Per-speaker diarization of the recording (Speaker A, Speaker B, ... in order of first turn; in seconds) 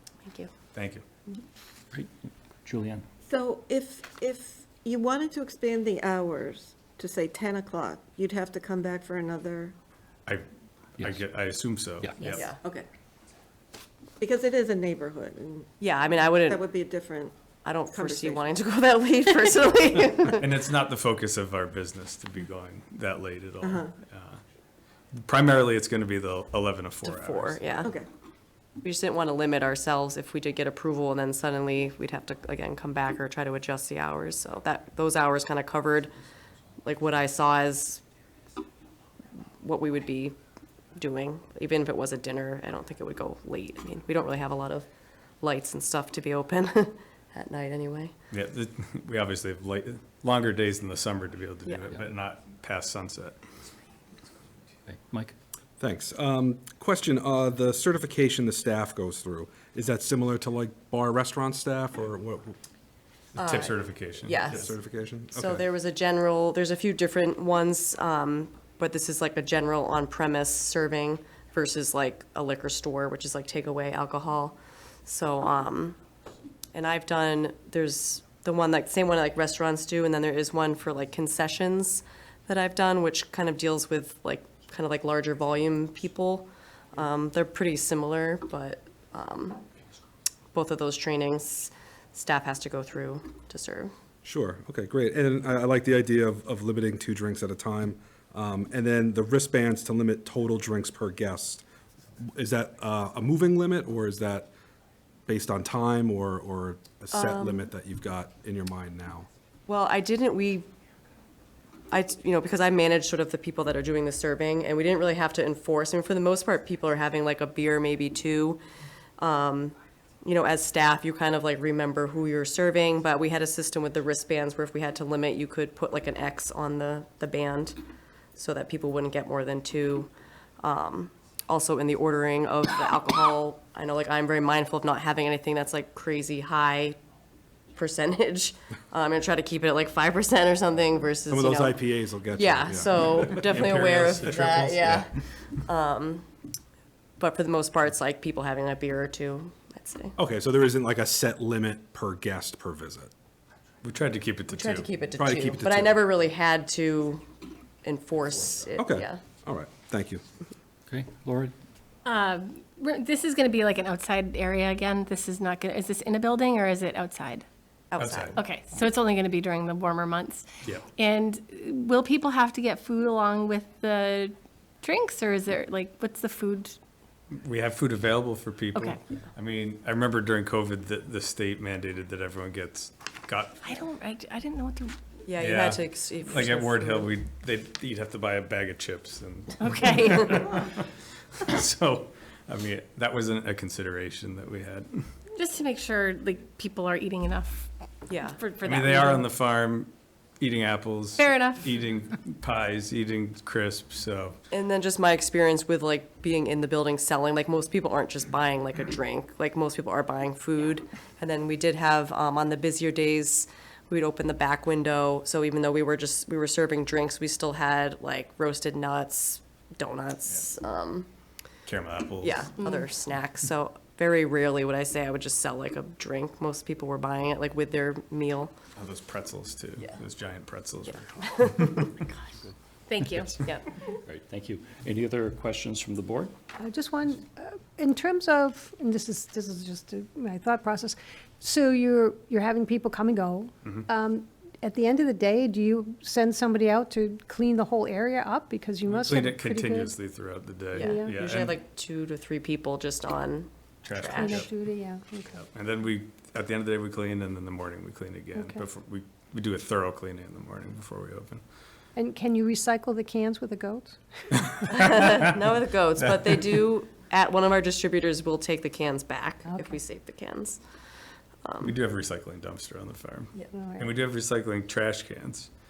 Speaker A: 0.2-0.5, 12.2-12.9, 15.8-16.6, 17.6-20.5, 27.0-27.9, 28.8-36.1, 36.8-38.0, 39.6-40.4, 41.0-44.9, 45.4-48.1, 63.4-64.7, 65.3-76.0, 76.7-89.6, 90.5-93.9, 107.1-107.7, 109.7-110.7, 111.9-118.6, 119.2-127.8, 128.4-130.1, 130.6-137.0, 137.8-146.3, 147.2-150.2, 154.5-157.3, 157.8-159.2, 167.9-168.4, 185.3-187.1, 198.1-198.4, 204.5-221.1, 222.2-228.6, 230.9-231.9, 250.8-254.5, 264.7-270.6, 271.4-271.7
Speaker B: 0.7-1.0, 11.0-12.5, 20.4-24.4, 25.2-27.6, 48.3-53.4, 63.4-64.7, 143.1-145.1, 153.8-154.9, 168.0-168.4, 177.3-183.7, 185.4-195.1, 198.6-204.4, 221.7-222.6, 228.8-231.8, 248.9-251.6, 253.8-254.5, 255.5-261.4, 271.6-275.5
Speaker C: 1.9-3.0, 11.0-11.2, 12.0-12.4, 54.9-55.4, 160.9-161.5, 233.0-236.3
Speaker D: 3.2-9.8, 14.2-15.7, 16.3-17.3, 17.9-18.5, 23.6-23.9
Speaker E: 55.8-62.6, 64.5-65.6, 94.2-101.6, 102.3-104.5, 105.3-109.3, 141.3-143.4, 150.2-153.1, 155.2-156.1, 158.8-160.2
Speaker F: 162.1-167.4, 168.4-176.8, 183.6-185.0, 189.6-190.2, 195.4-197.7, 198.2-199.3, 201.2-201.7, 222.6-222.9, 232.9-233.3
Speaker G: 236.6-249.9, 250.8-251.2, 254.1-255.5, 258.4-258.6, 262.0-264.7, 273.5-273.9